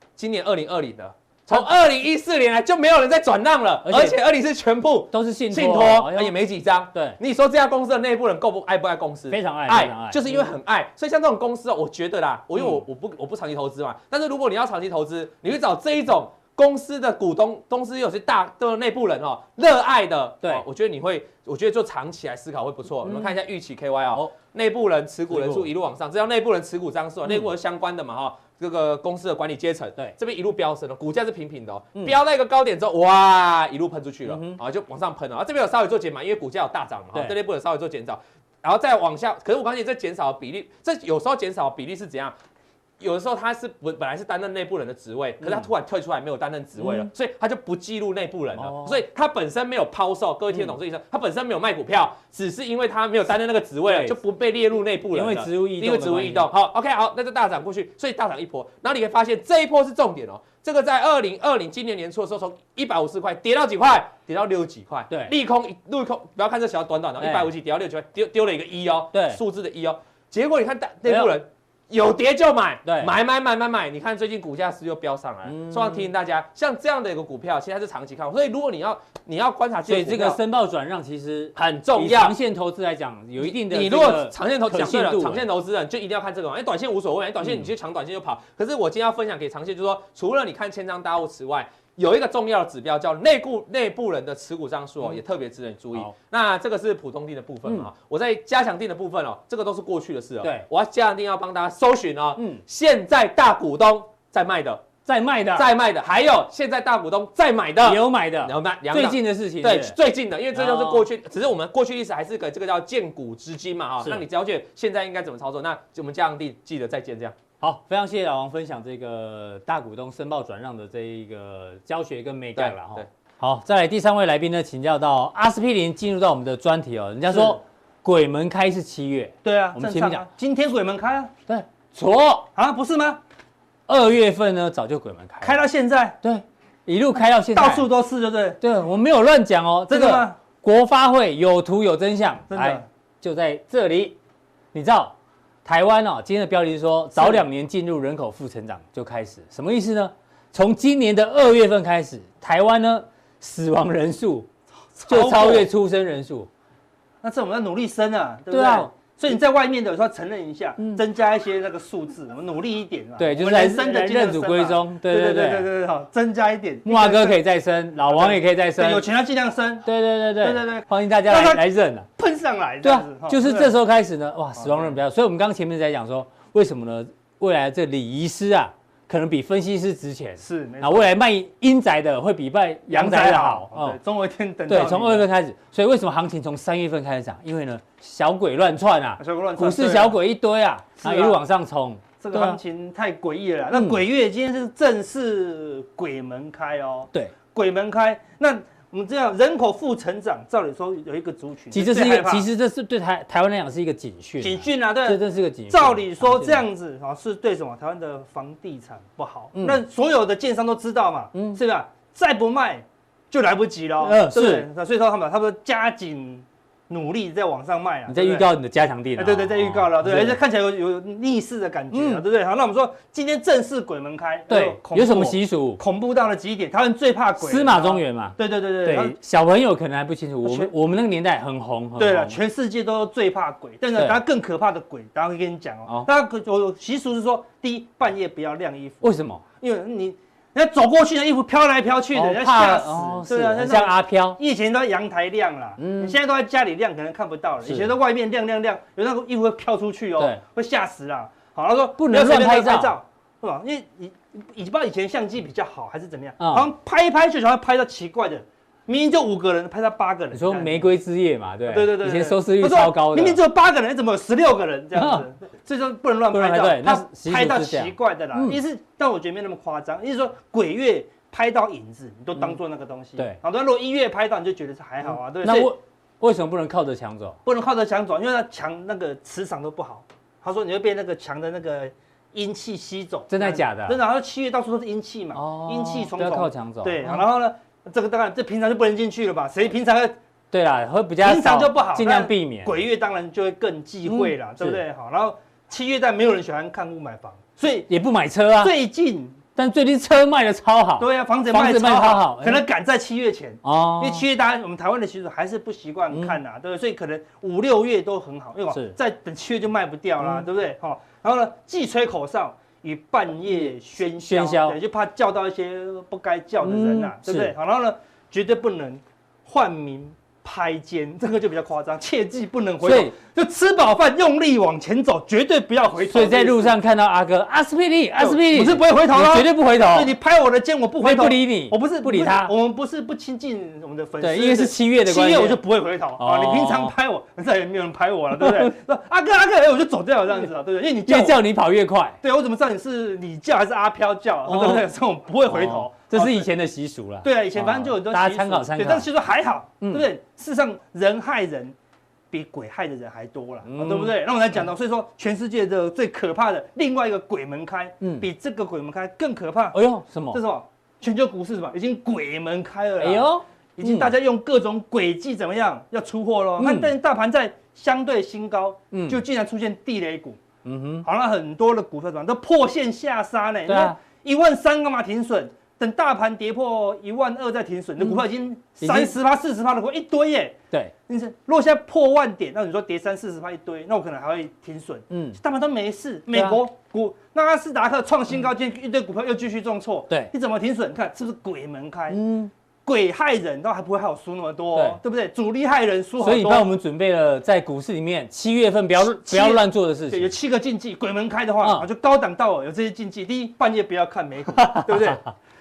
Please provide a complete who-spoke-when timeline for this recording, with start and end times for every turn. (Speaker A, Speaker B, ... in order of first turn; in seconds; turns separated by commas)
Speaker A: 0.2-42.3, Speaker B: 3.8-4.2, Speaker B: 5.1-6.3, Speaker B: 6.9-7.2, Speaker B: 9.3-10.5, Speaker B: 12.6-12.8, Speaker B: 23.0-23.3, Speaker B: 25.3-25.7, Speaker B: 34.3-34.6, Speaker A: 43.0-80.4, Speaker B: 45.4-45.7, Speaker B: 46.8-47.1, Speaker B: 48.5-49.0, Speaker B: 53.9-54.2, Speaker B: 55.1-56.5, Speaker B: 67.2-67.5, Speaker B: 69.1-69.4, Speaker B: 71.0-71.3, Speaker B: 72.8-73.1, Speaker B: 75.5-76.1, Speaker B: 79.8-85.5, Speaker A: 81.5-82.4, Speaker A: 83.4-104.8, Speaker B: 87.4-87.7, Speaker B: 100.4-100.7, Speaker B: 102.4-102.6, Speaker B: 105.0-105.7, Speaker A: 105.5-117.3, Speaker B: 107.8-110.0, Speaker B: 110.5-111.0, Speaker B: 117.6-130.2, Speaker A: 122.5-123.1, Speaker C: 127.3-127.6, Speaker C: 129.4-131.3, Speaker B: 131.5-132.5, Speaker C: 132.5-133.2, Speaker B: 133.9-135.6, Speaker C: 135.4-136.2, Speaker B: 136.2-137.9, Speaker C: 137.5-138.6, Speaker B: 138.6-144.2, Speaker C: 139.9-140.4, Speaker C: 142.5-142.8, Speaker B: 144.7-154.5, Speaker C: 147.2-147.4, Speaker C: 155.0-155.7, Speaker B: 155.1-156.5, Speaker C: 157.2-167.4, Speaker B: 158.5-158.9, Speaker B: 163.2-165.7, Speaker B: 166.8-169.0, Speaker C: 168.1-169.9, Speaker B: 169.8-172.1, Speaker C: 170.4-171.6, Speaker C: 172.2-173.7, Speaker B: 172.8-184.0, Speaker C: 174.6-175.0, Speaker C: 180.4-181.1, Speaker C: 182.9-185.2, Speaker B: 184.7-192.6, Speaker C: 189.2-190.1, Speaker C: 191.0-191.4, Speaker C: 192.2-202.5, Speaker B: 193.7-194.0, Speaker B: 201.7-206.6, Speaker C: 204.4-218.5, Speaker B: 209.5-209.8, Speaker B: 211.3-211.6, Speaker B: 214.0-214.7, Speaker B: 218.1-220.4, Speaker C: 219.2-229.2, Speaker B: 221.9-222.2, Speaker B: 224.5-225.8, Speaker B: 227.4-232.4, Speaker C: 230.4-230.7, Speaker C: 232.0-239.0, Speaker B: 233.9-234.2, Speaker B: 239.0-239.4, Speaker C: 239.6-260.9, Speaker B: 242.1-244.4, Speaker B: 245.8-246.2, Speaker B: 247.6-247.9, Speaker B: 252.0-252.9, Speaker B: 256.4-256.7, Speaker B: 260.3-263.4, Speaker C: 261.7-275.7, Speaker B: 264.9-265.2, Speaker B: 266.3-268.6, Speaker B: 275.0-277.4, Speaker C: 277.4-290.1, Speaker B: 283.3-284.0, Speaker B: 285.3-287.2, Speaker B: 290.5-292.7, Speaker C: 291.2-297.9, Speaker B: 294.1-294.8, Speaker B: 297.9-298.7, Speaker C: 298.6-299.4, Speaker B: 299.6-302.6, Speaker C: 301.0-326.7, Speaker B: 303.6-304.2, Speaker B: 306.1-306.4, Speaker B: 313.5-314.8, Speaker B: 316.6-317.5, Speaker B: 322.8-323.1, Speaker B: 326.0-330.1, Speaker C: 328.2-341.4, Speaker B: 331.0-332.5, Speaker B: 334.2-335.6, Speaker B: 336.2-336.9, Speaker B: 338.3-338.7, Speaker B: 341.1-342.2, Speaker C: 342.2-346.5, Speaker B: 344.4-344.9, Speaker B: 345.5-349.1, Speaker C: 347.2-351.7, Speaker B: 349.8-350.1, Speaker C: 352.3-359.8, Speaker B: 353.6-354.1, Speaker B: 358.0-358.3, Speaker B: 359.7-360.4, Speaker C: 360.3-370.4, Speaker B: 363.0-364.1, Speaker B: 366.6-366.9, Speaker B: 368.9-369.2, Speaker B: 370.6-371.1, Speaker C: 371.0-380.6, Speaker B: 373.6-374.0, Speaker B: 378.8-379.1, Speaker C: 381.1-392.2, Speaker B: 385.1-385.4, Speaker B: 386.3-386.6, Speaker B: 392.1-392.5, Speaker C: 392.8-396.7, Speaker B: 394.7-395.0, Speaker B: 396.2-400.3, Speaker C: 399.1-405.2, Speaker B: 404.5-405.3